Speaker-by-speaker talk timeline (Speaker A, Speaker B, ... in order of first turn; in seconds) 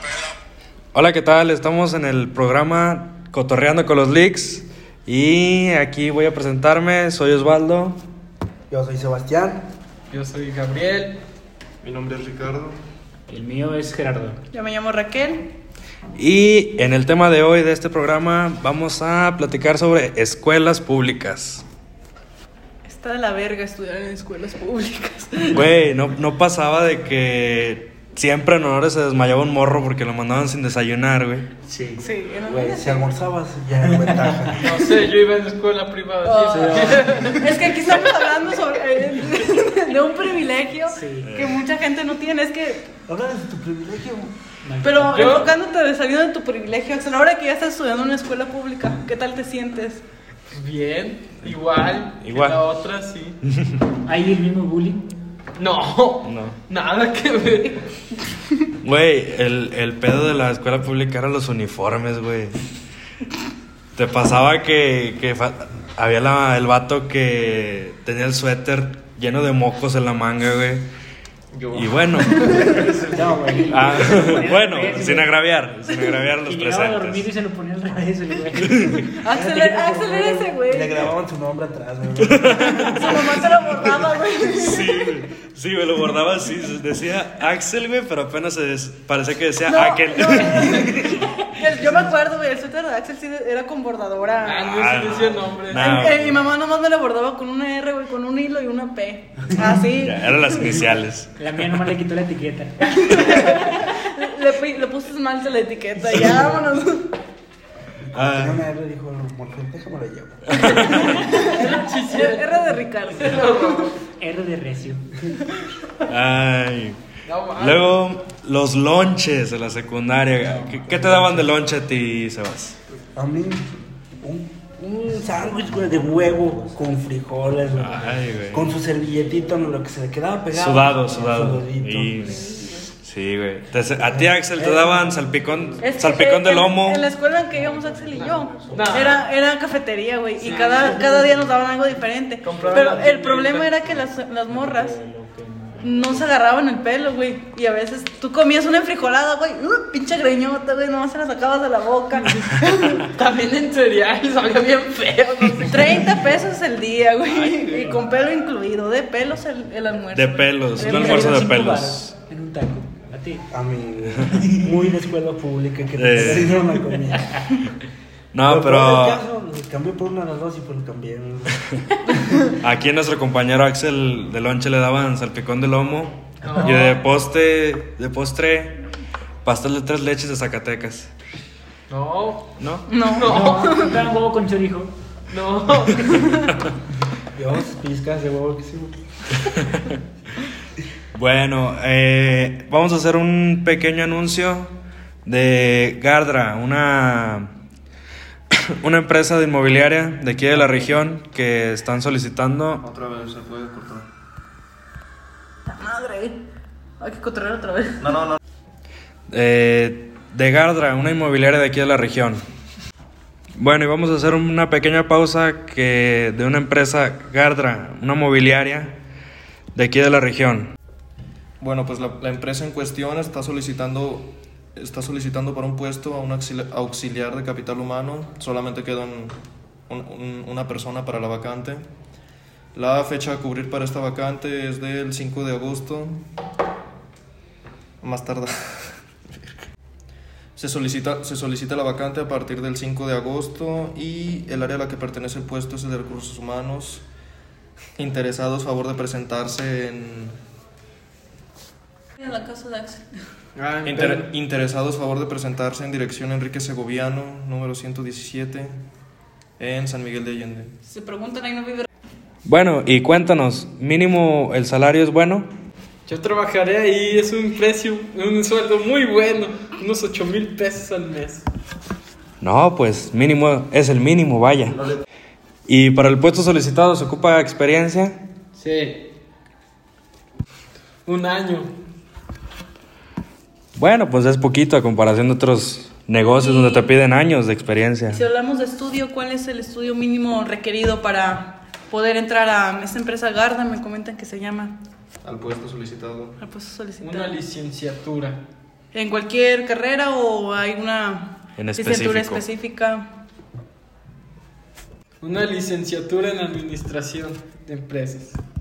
Speaker A: 0.9-8.0, 16.2-21.6, 25.6-31.5, 41.2-41.6, 52.2-52.6, 53.5-53.8, 56.2-56.6, 58.8-62.6, 64.0-70.8, 71.7-72.5, 73.7-77.3, 78.7-79.1, 82.3-83.2, 84.5-90.9, 94.8-96.5, 100.0-101.4, 108.2-108.7, 110.6-111.1, 116.1-117.0, 117.6-122.8, 127.8-128.7, 130.5-137.1, 157.3-157.7, 160.1-162.1, 164.1-164.4, 166.0-166.6, 168.3-169.2, 172.6-178.8, 179.4-181.1, 182.6-182.9, 189.5-189.9, 191.1-194.8, 195.3-197.5, 198.8-202.8, 209.3-212.4, 213.6-219.0, 219.8-220.7, 262.4-265.5, 272.4-274.8, 275.7-278.2, 283.8-288.2, 301.6-302.4
Speaker B: 8.7-9.6, 32.5-34.9, 43.1-44.3, 79.3-83.7, 108.2-111.2, 120.9-121.4, 123.2-132.4, 134.0-135.0, 163.5-167.3, 168.5-171.6, 187.3-188.9
Speaker C: 10.1-11.2, 34.6-37.6, 45.1-45.5, 50.5-53.4, 55.6-57.8, 94.4-95.9, 111.2-113.9, 117.2-117.9, 138.7-139.2, 140.4-141.1, 142.4-143.9, 153.0-156.2, 176.4-177.1, 181.9-182.5, 183.2-183.9, 185.3-186.1, 253.6-254.3, 266.1-271.4, 278.6-279.1, 281.1-281.7, 297.0-298.4, 305.2-308.4
Speaker D: 11.8-12.8, 71.5-72.8, 202.8-204.1, 208.0-208.4, 221.6-229.4, 229.9-231.9, 232.8-236.2, 238.0-239.6, 240.6-247.1, 248.0-250.4, 253.8-258.8, 259.6-260.7, 295.2-296.4
Speaker E: 13.3-14.4, 31.7-32.0, 36.4-37.4, 40.9-41.3, 44.6-45.4, 54.0-55.1, 72.5-75.3, 76.4-79.0, 101.4-103.0, 114.1-115.1, 125.4-126.8, 137.5-139.2, 140.7-141.5, 144.5-146.3, 160.7-163.5, 166.3-166.6, 183.2-184.9
Speaker F: 14.5-15.5, 22.8-25.7, 32.0-33.0, 36.2-42.9, 44.8-50.0, 79.2-81.0, 82.9-85.2, 89.7-94.9, 95.7-101.0, 102.9-107.1, 111.0-113.9, 135.8-145.0, 145.8-153.0, 155.7-161.3, 182.9-183.9, 205.7-206.3, 207.0-208.0, 252.2-253.1, 260.9-261.9, 286.3-286.9, 288.1-294.7, 296.4-297.4, 298.9-303.0